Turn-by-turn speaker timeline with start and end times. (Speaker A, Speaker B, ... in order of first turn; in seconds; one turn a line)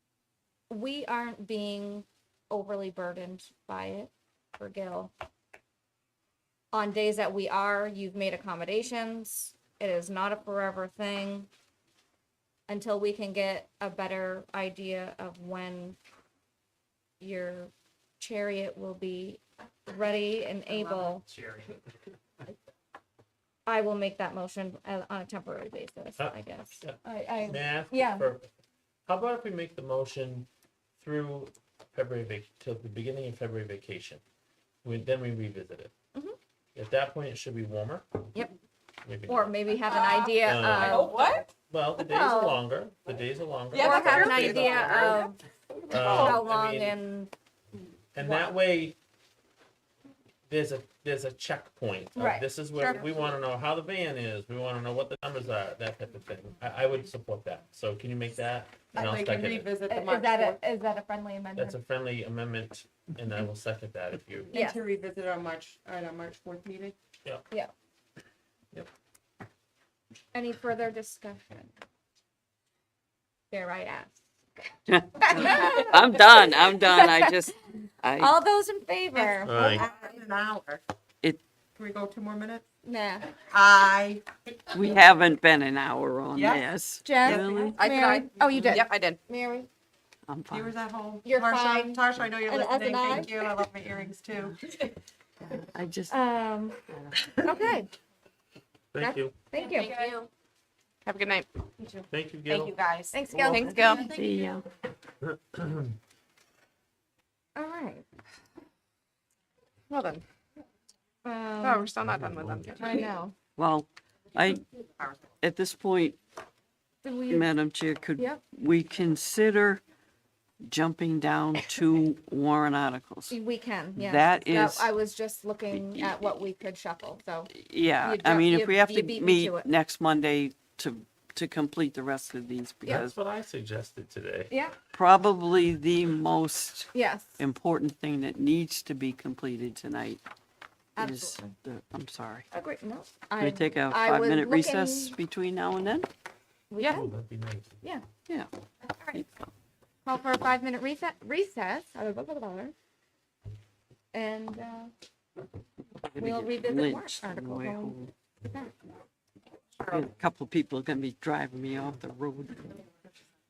Speaker A: 0.7-5.1
Speaker A: 6.7-11.5
Speaker A: 12.7-16.0
Speaker A: 17.2-21.3
Speaker A: 23.7-28.3
Speaker B: 26.2-28.5
Speaker B: 29.1-34.2
Speaker B: 34.8-35.9
Speaker B: 36.8-38.2
Speaker B: 39.0-39.5
Speaker A: 39.3-41.3
Speaker C: 40.1-41.5
Speaker B: 40.4-41.1
Speaker D: 40.8-41.4
Speaker B: 41.7-45.2
Speaker A: 42.0-42.6
Speaker D: 43.7-46.4
Speaker A: 43.7-45.4
Speaker B: 45.9-47.0
Speaker A: 46.0-47.3
Speaker B: 48.1-49.0
Speaker B: 50.5-59.7
Speaker A: 52.2-52.5
Speaker D: 52.8-53.1
Speaker D: 58.9-60.6
Speaker A: 59.9-61.8
Speaker B: 61.6-64.5
Speaker D: 64.5-67.0
Speaker A: 64.5-64.8
Speaker A: 70.3-71.7
Speaker A: 73.5-77.3
Speaker E: 74.9-78.3
Speaker A: 78.2-79.8
Speaker D: 79.1-80.8
Speaker B: 79.4-79.9
Speaker D: 81.8-82.6
Speaker A: 82.8-83.3
Speaker D: 83.4-85.0
Speaker E: 84.7-87.8
Speaker D: 86.3-86.6
Speaker A: 87.0-89.7
Speaker D: 87.2-88.2
Speaker C: 87.8-89.2
Speaker D: 88.8-89.1
Speaker E: 90.3-90.7
Speaker D: 90.5-94.6
Speaker A: 91.2-93.4
Speaker E: 95.4-96.2
Speaker A: 96.1-96.8
Speaker E: 96.9-97.3
Speaker A: 97.4-97.9
Speaker B: 98.9-99.3
Speaker A: 99.0-100.1
Speaker C: 99.7-100.3
Speaker D: 101.1-101.5
Speaker C: 101.1-101.5
Speaker B: 102.1-102.8
Speaker C: 102.5-104.1
Speaker D: 102.5-104.6
Speaker A: 103.1-104.1
Speaker E: 103.3-104.7
Speaker B: 105.2-105.9
Speaker A: 107.6-108.1
Speaker C: 109.9-110.2
Speaker A: 111.2-111.9
Speaker C: 111.6-113.1
Speaker D: 111.7-112.5
Speaker B: 112.0-112.8
Speaker A: 112.8-113.3
Speaker E: 113.6-114.7
Speaker E: 115.4-116.2
Speaker A: 117.0-117.5
Speaker E: 117.3-119.8
Speaker E: 120.6-123.4
Speaker A: 123.3-129.7
Speaker E: 124.0-124.9
Speaker E: 127.5-133.2
Speaker B: 132.8-134.5
Speaker A: 134.5-134.8
Speaker E: 134.9-140.2
Speaker A: 136.9-137.4
Speaker A: 141.0-141.5
Speaker E: 141.0-142.4
Speaker A: 142.5-145.2
Speaker E: 143.4-146.1
Speaker A: 146.7-147.1
Speaker B: 146.9-147.8
Speaker A: 148.9-149.2
Speaker A: 150.1-152.7
Speaker A: 154.1-154.9
Speaker E: 156.0-158.1
Speaker A: 156.2-158.7
Speaker E: 159.9-162.8